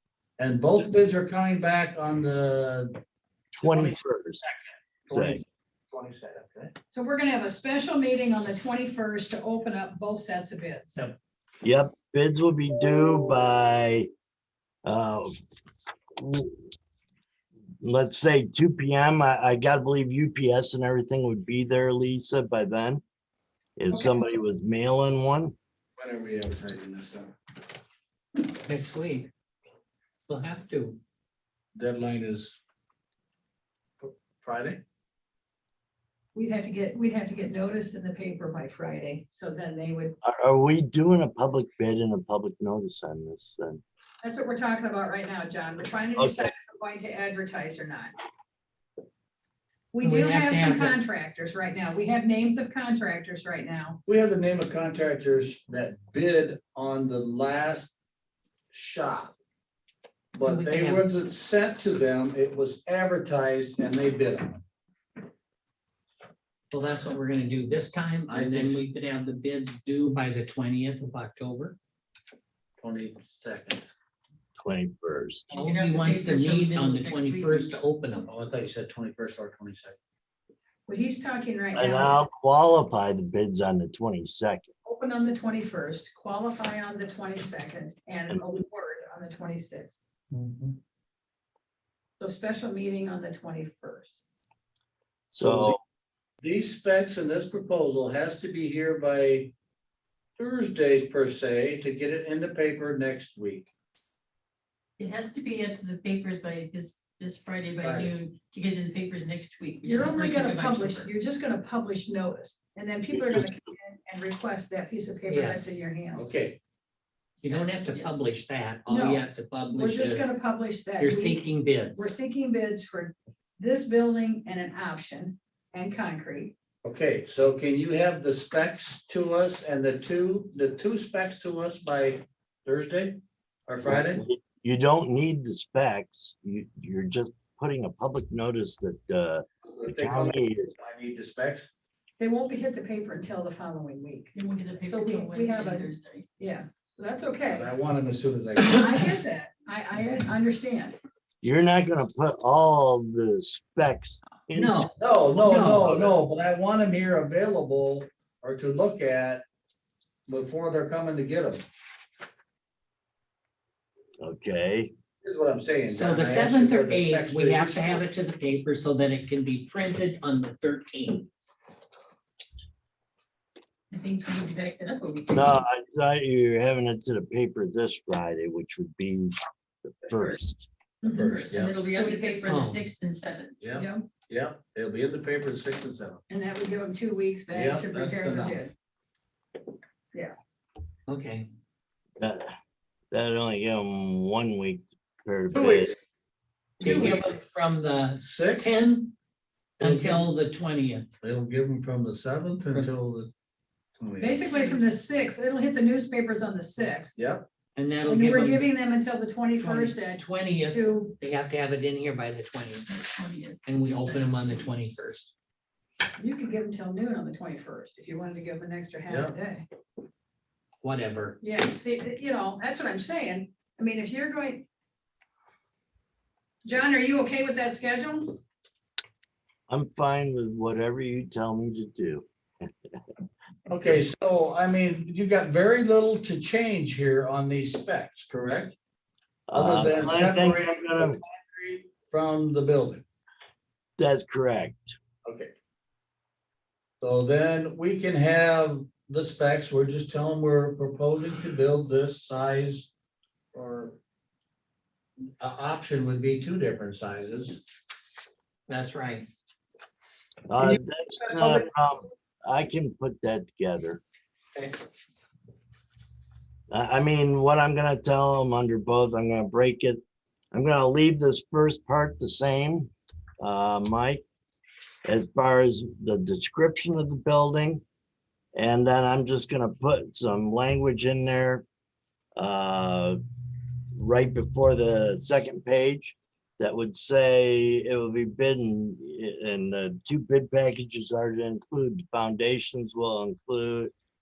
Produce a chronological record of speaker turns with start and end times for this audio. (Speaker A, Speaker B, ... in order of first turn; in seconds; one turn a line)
Speaker A: 0.4-3.0
Speaker B: 3.5-4.4
Speaker A: 3.6-6.7
Speaker B: 5.1-5.4
Speaker C: 6.9-11.0
Speaker B: 11.6-14.1
Speaker B: 14.8-15.4
Speaker B: 16.2-16.7
Speaker B: 17.8-23.0
Speaker B: 23.8-25.5
Speaker C: 23.9-24.3
Speaker A: 26.0-27.3
Speaker D: 28.6-29.3
Speaker D: 30.3-31.0
Speaker A: 31.7-32.6
Speaker A: 34.0-34.8
Speaker C: 36.3-40.1
Speaker B: 40.2-43.8
Speaker C: 44.2-48.1
Speaker B: 46.2-46.5
Speaker C: 49.9-54.0
Speaker D: 50.0-51.0
Speaker A: 54.0-58.0
Speaker A: 58.7-59.3
Speaker A: 60.3-64.6
Speaker D: 60.4-61.1
Speaker D: 66.7-71.8
Speaker A: 68.3-68.8
Speaker A: 72.8-73.8
Speaker B: 74.6-75.5
Speaker E: 75.5-77.7
Speaker D: 75.5-78.3
Speaker C: 76.0-76.5
Speaker A: 78.3-80.0
Speaker C: 80.9-82.2
Speaker B: 81.7-84.7
Speaker C: 84.8-90.0
Speaker A: 90.3-90.8
Speaker C: 92.2-94.1
Speaker B: 95.3-95.8
Speaker A: 95.4-95.8
Speaker A: 96.4-99.5
Speaker A: 100.4-103.7
Speaker E: 105.0-111.1
Speaker A: 107.8-108.1
Speaker C: 109.8-116.2
Speaker B: 113.1-113.5
Speaker D: 115.3-115.8
Speaker A: 116.1-116.6
Speaker E: 117.4-118.3
Speaker D: 117.4-120.3
Speaker C: 118.9-126.5
Speaker D: 121.0-122.1
Speaker A: 126.8-134.2
Speaker B: 133.8-140.7
Speaker A: 139.7-141.7
Speaker C: 142.2-147.7
Speaker E: 144.3-146.3
Speaker A: 147.5-149.2
Speaker C: 148.6-150.9
Speaker B: 151.4-154.9
Speaker D: 154.5-156.2
Speaker A: 155.0-159.4
Speaker A: 160.3-161.6
Speaker B: 164.2-164.9
Speaker A: 165.2-168.0
Speaker D: 165.9-171.3
Speaker E: 173.9-175.6
Speaker B: 175.3-180.6
Speaker C: 181.0-181.4
Speaker A: 181.0-181.8
Speaker E: 181.3-183.6
Speaker C: 181.9-182.5
Speaker D: 182.4-182.8
Speaker A: 183.6-186.2
Speaker C: 183.7-184.0
Speaker C: 186.3-188.7
Speaker A: 187.5-188.7
Speaker D: 191.1-191.5
Speaker B: 192.2-192.5
Speaker B: 193.1-195.9
Speaker A: 195.5-195.9
Speaker C: 196.8-197.3
Speaker D: 196.8-199.1
Speaker A: 196.8-197.2
Speaker A: 198.2-198.8
Speaker A: 199.8-200.3
Speaker D: 199.8-201.1
Speaker A: 201.2-203.3
Speaker A: 204.0-204.5
Speaker C: 204.2-207.2
Speaker E: 204.5-204.9
Speaker A: 207.2-207.4
Speaker D: 207.8-208.7
Speaker C: 208.0-211.2
Speaker D: 209.6-212.9
Speaker E: 212.9-215.0
Speaker D: 213.7-215.3
Speaker C: 216.2-219.6
Speaker A: 219.1-219.3
Speaker D: 220.8-221.4
Speaker C: 221.4-224.7
Speaker C: 226.6-228.4
Speaker B: 229.7-232.7
Speaker A: 233.7-238.7
Speaker B: 239.5-241.2
Speaker A: 239.5-243.0
Speaker B: 244.0-244.9
Speaker A: 245.2-245.5
Speaker A: 247.0-252.9
Speaker A: 253.5-254.0
Speaker A: 255.4-257.6
Speaker D: 258.7-259.3
Speaker B: 260.5-264.0
Speaker A: 260.6-261.6
Speaker B: 266.7-270.0
Speaker B: 270.5-274.2
Speaker B: 275.0-277.8
Speaker B: 278.5-281.6
Speaker B: 282.4-283.2
Speaker B: 283.9-293.9